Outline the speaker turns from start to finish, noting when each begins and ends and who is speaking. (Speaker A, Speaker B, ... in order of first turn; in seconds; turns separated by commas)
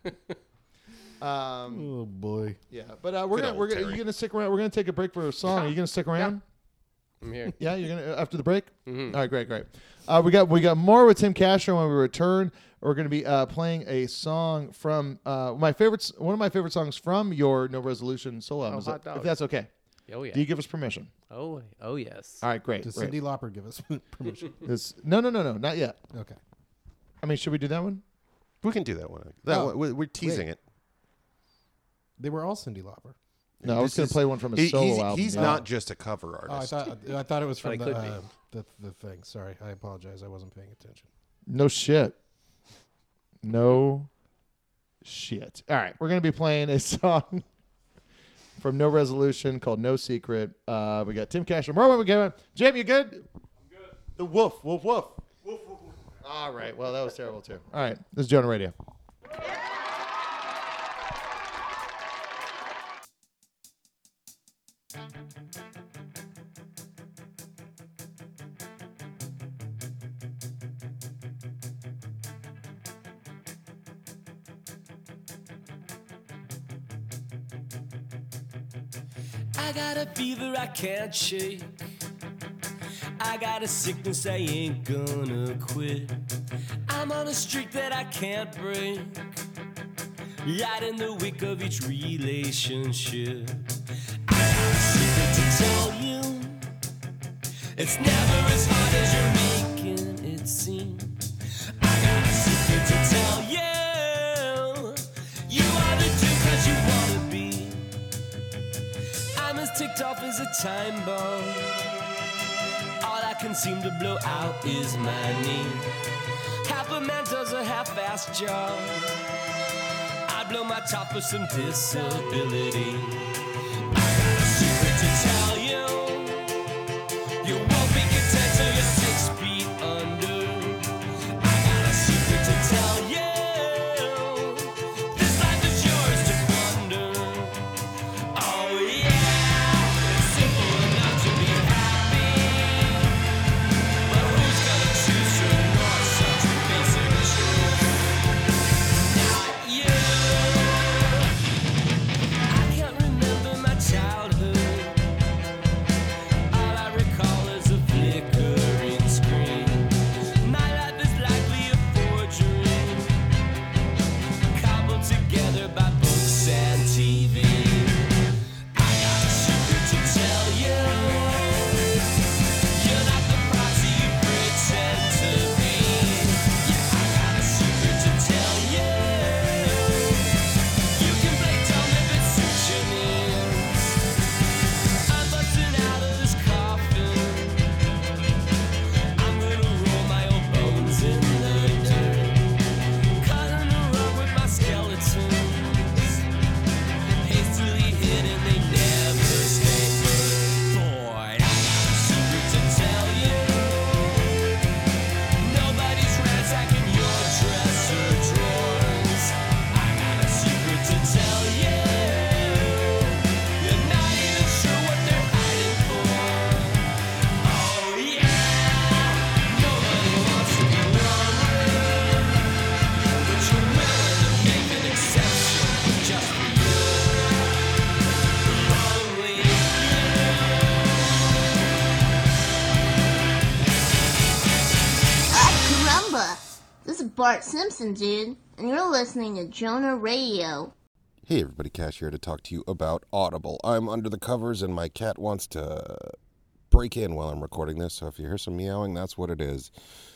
Speaker A: 1.2-1.9, Speaker B: 1.7-2.6, Speaker A: 2.7-6.4, Speaker C: 3.3-4.0, Speaker D: 7.2-7.5, Speaker A: 7.6-19.7, Speaker D: 8.9-9.2, Speaker D: 18.6-19.4, Speaker D: 20.1-20.4, Speaker A: 20.3-21.1, Speaker D: 21.3-22.4, Speaker A: 22.4-23.2, Speaker B: 22.8-24.6, Speaker A: 24.6-26.0, Speaker B: 26.1-26.4, Speaker A: 27.2-28.0, Speaker C: 28.6-30.6, Speaker B: 29.5-30.5, Speaker B: 32.2-33.1, Speaker C: 33.6-36.9, Speaker A: 33.6-35.6, Speaker B: 35.4-35.6, Speaker B: 36.5-41.1, Speaker D: 37.6-38.2, Speaker A: 41.5-42.1, Speaker A: 43.4-44.1, Speaker A: 45.0-47.4, Speaker A: 48.6-53.2, Speaker A: 54.1-55.2, Speaker A: 56.2-58.7, Speaker E: 79.5-81.8, Speaker E: 83.2-86.2, Speaker E: 86.9-89.2, Speaker E: 90.4-93.7, Speaker E: 94.3-96.7, Speaker E: 97.8-101.2, Speaker E: 101.8-107.9, Speaker E: 109.4-111.9, Speaker E: 113.0-115.9, Speaker E: 116.6-119.2, Speaker E: 120.3-123.4, Speaker E: 123.9-126.5, Speaker E: 127.4-137.6, Speaker E: 138.3-143.2, Speaker E: 144.1-148.0, Speaker E: 149.0-151.2, Speaker E: 152.5-155.0, Speaker E: 156.5-163.2, Speaker E: 164.5-168.1, Speaker E: 168.7-171.9, Speaker E: 172.7-180.4, Speaker E: 180.9-184.0, Speaker E: 185.1-187.7, Speaker E: 189.2-192.5, Speaker E: 193.2-196.1, Speaker E: 197.2-204.6, Speaker E: 205.4-216.9, Speaker E: 217.4-222.5, Speaker E: 223.1-227.5, Speaker E: 228.4-231.4, Speaker F: 235.3-240.7, Speaker C: 241.2-246.1, Speaker C: 246.7-249.7